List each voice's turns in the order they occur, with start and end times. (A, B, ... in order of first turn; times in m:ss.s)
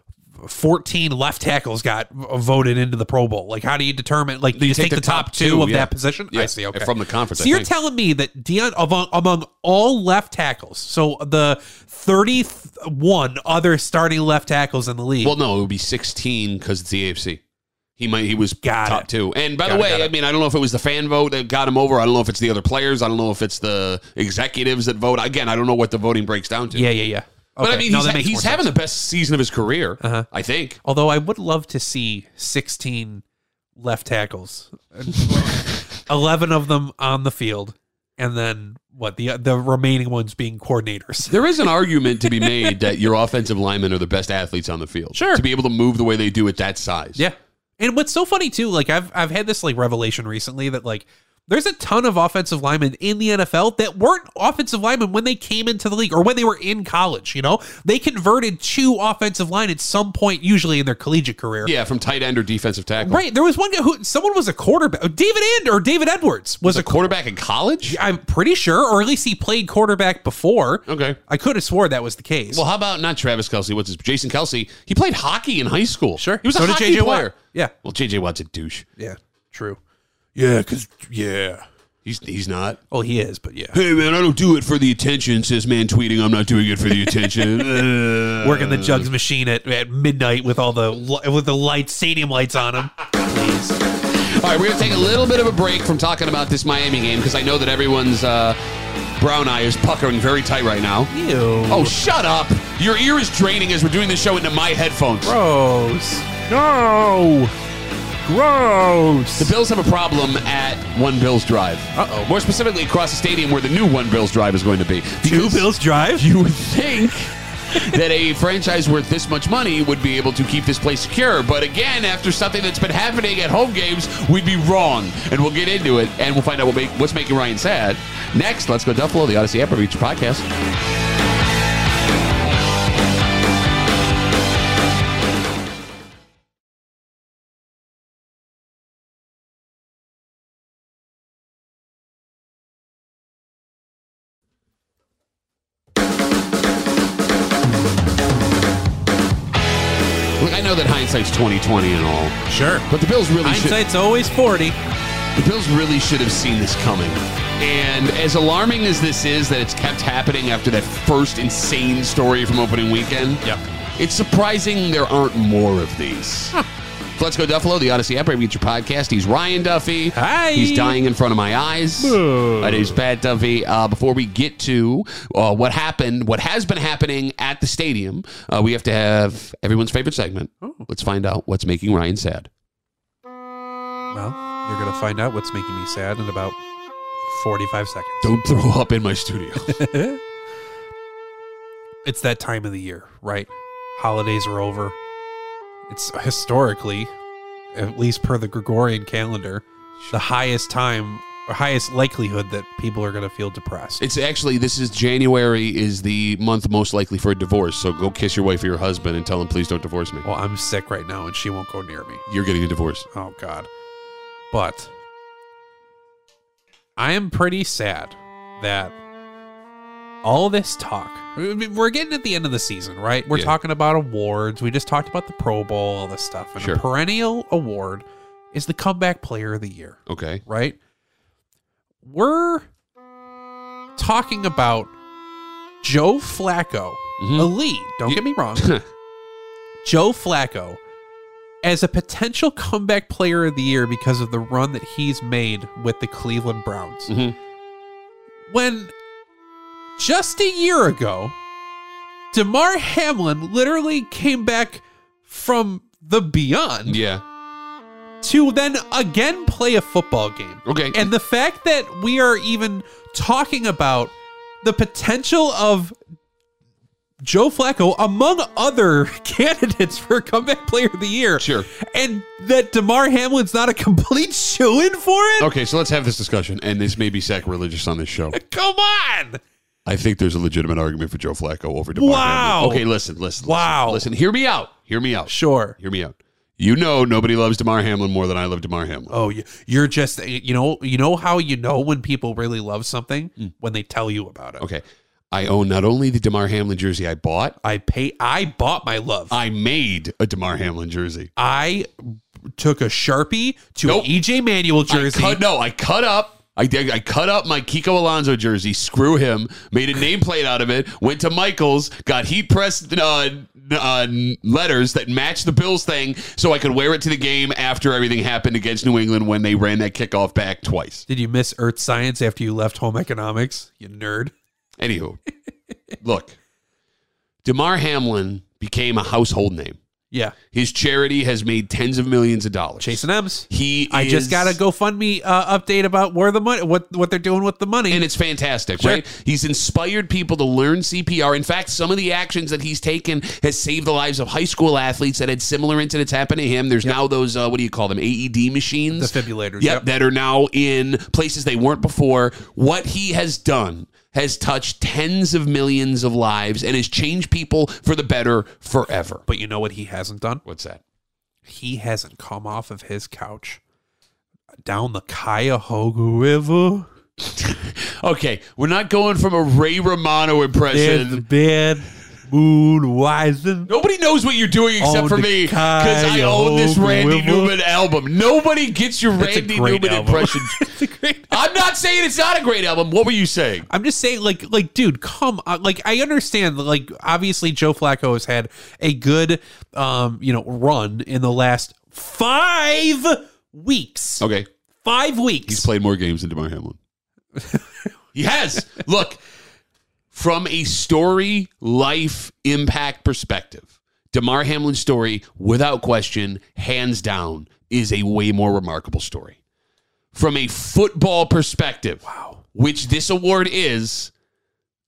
0:00.4-0:15.4 A
0:04.5-0:07.7 B
0:15.2-0:17.4 B
0:18.0-0:26.9 B
0:18.6-0:19.1 A
0:19.6-0:20.1 A
0:26.7-0:28.7 A
0:27.6-0:30.8 B
0:30.0-0:30.3 A
0:30.8-0:33.2 A
0:33.8-0:41.4 A
0:41.3-0:47.2 B
0:45.1-0:45.4 A
0:47.2-1:01.7 A
1:01.6-1:03.2 B
1:03.0-1:07.1 A
1:06.6-1:08.0 B
1:07.8-1:12.6 A
1:10.9-1:11.2 B
1:12.5-1:18.8 B
1:16.2-1:17.7 A
1:19.0-1:19.8 A
1:20.4-1:21.6 A
1:20.5-1:21.3 C
1:22.0-1:22.8 B
1:22.9-1:23.8 A
1:23.7-1:29.1 B
1:27.2-1:27.6 A
1:28.4-1:33.8 A
1:34.1-1:38.6 B
1:39.2-1:41.1 B
1:41.1-1:42.0 A
1:41.7-1:45.3 B
1:45.2-1:46.4 A
1:46.5-1:47.5 C
1:48.2-1:49.4 C
1:49.4-2:10.4 B
1:51.9-1:52.3 A
1:55.2-1:56.3 A
2:30.4-2:33.8 B
2:32.5-2:32.9 A
2:33.4-2:34.8 A
2:35.4-2:43.4 B
2:44.0-2:46.5 B
2:47.2-3:02.5 B
2:50.1-2:51.0 A
2:52.0-2:53.0 A
3:04.1-3:06.6 A
3:07.3-3:08.3 A
3:08.2-3:09.8 B
3:09.7-3:10.2 A
3:12.0-3:15.0 A
3:15.9-3:17.1 A
3:17.7-3:24.0 A
3:24.0-3:30.2 B
3:30.2-3:32.2 A
3:32.3-3:33.0 B
3:33.1-3:33.7 A
3:34.5-3:34.9 A
3:37.0-3:39.0 A
3:40.2-3:50.8 A
3:50.1-3:50.4 B
3:52.0-3:52.7 A
3:54.0-3:54.9 A
3:55.8-3:58.7 A
3:57.2-3:57.5 B
3:58.0-3:58.8 B
3:59.8-4:00.8 A
4:01.6-4:07.1 A
4:07.1-4:07.4 B
4:08.5-4:08.9 A
4:10.0-4:11.3 A
4:12.3-4:17.0 A
4:16.8-4:17.2 B
4:18.2-4:24.1 A
4:20.6-4:21.1 B
4:24.6-4:25.9 A
4:27.2-4:35.5 A
4:31.4-4:31.7 B
4:35.4-4:38.4 B
4:38.3-4:39.4 A
4:39.8-4:49.1 B
4:41.9-4:42.8 A
4:43.4-4:44.1 A
4:45.3-4:45.8 A
4:49.1-4:54.6 A
4:54.6-4:57.6 B
4:57.6-4:59.3 A
4:59.3-5:01.3 B
5:01.4-5:05.4 A
5:03.8-5:04.1 B
5:04.9-5:21.0 B
5:21.1-5:24.3 A
5:24.8-5:25.2 B
5:26.0-5:26.4 B
5:27.4-5:29.8 B
5:30.1-5:30.4 A
5:30.5-5:34.6 B
5:32.8-5:38.0 A
5:37.9-5:59.2 B
5:38.8-5:39.0 A
5:48.9-5:49.8 A
5:59.3-6:00.4 A
6:00.4-6:00.8 B
6:01.5-6:03.6 A
6:04.6-6:06.9 A
6:07.2-6:11.2 B
6:10.7-6:13.7 A
6:13.7-6:20.7 B
6:14.8-6:17.5 A
6:19.2-6:21.4 A
6:21.3-6:23.7 B
6:23.7-6:34.2 A
6:34.2-6:34.5 B
6:34.8-6:35.7 A
6:35.5-6:36.8 B
6:38.1-6:39.2 B
6:40.1-6:49.4 B
6:50.1-6:52.0 B
6:52.0-6:52.4 A
6:52.5-6:54.1 B